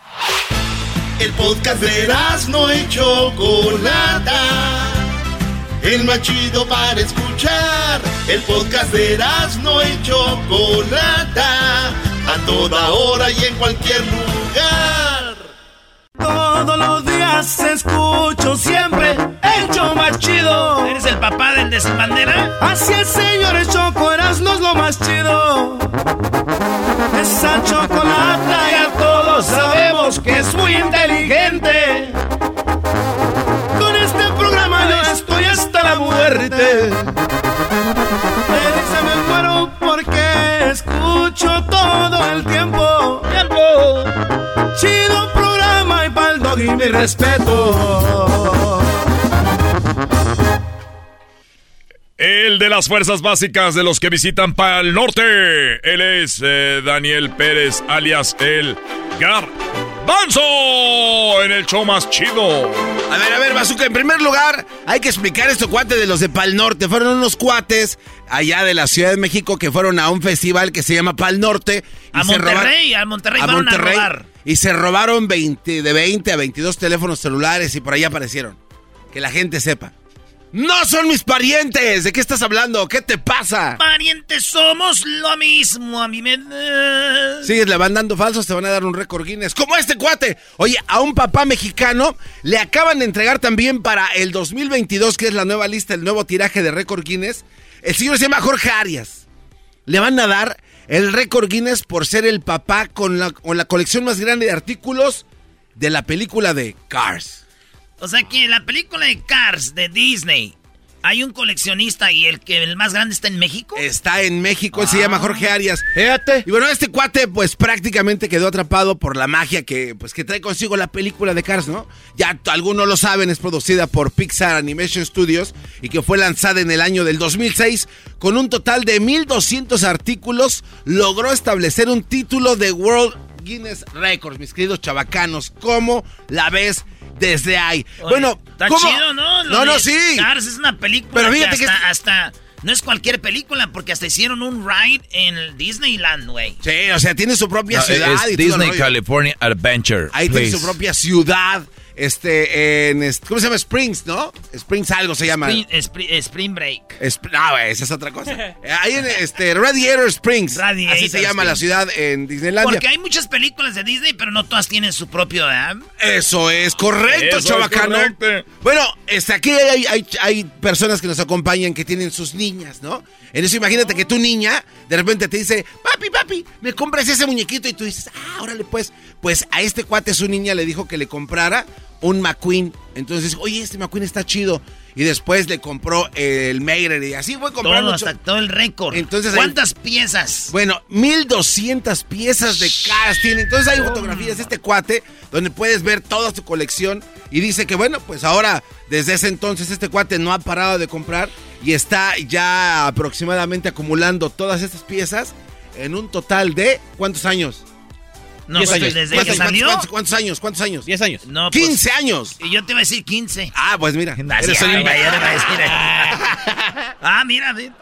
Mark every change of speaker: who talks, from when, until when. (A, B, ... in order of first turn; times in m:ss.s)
0:01.2-0:05.0 A
0:05.8-0:15.4 A
0:18.6-0:20.3 B
0:20.8-0:22.6 C
0:22.8-0:23.4 B
0:27.5-0:30.0 B
0:28.5-0:32.1 C
0:31.0-0:31.5 B
0:34.8-0:36.4 C
0:35.8-0:36.4 B
0:43.3-0:44.1 C
0:46.6-0:47.8 B
0:52.2-1:03.0 D
1:03.1-1:12.7 E
1:12.1-1:14.3 C
1:13.4-1:18.6 E
1:19.1-1:19.9 E
1:20.5-1:23.8 E
1:23.8-1:27.5 C
1:27.4-1:39.3 E
1:39.9-1:45.2 E
1:45.8-1:47.4 E
1:48.0-1:53.8 C
1:53.8-1:55.9 E
1:54.7-1:56.4 C
1:56.4-2:20.3 E
2:18.0-2:26.6 C
2:21.1-2:21.8 E
2:26.6-2:28.9 E
2:27.7-2:30.8 F
2:30.1-2:35.6 E
2:35.4-2:37.0 C
2:37.0-2:42.8 E
2:40.5-2:41.7 C
2:42.6-2:45.9 C
2:46.0-3:08.1 E
2:47.1-2:48.4 D
3:07.6-3:10.5 C
3:08.9-3:09.6 E
3:10.5-3:27.6 E
3:13.8-3:14.4 C
3:28.5-3:29.9 C
3:28.6-3:32.4 E
3:28.6-3:29.0 D
3:31.2-3:31.9 C
3:32.4-3:33.5 C
3:33.5-3:36.7 E
3:34.2-3:36.3 C
3:37.0-3:37.7 C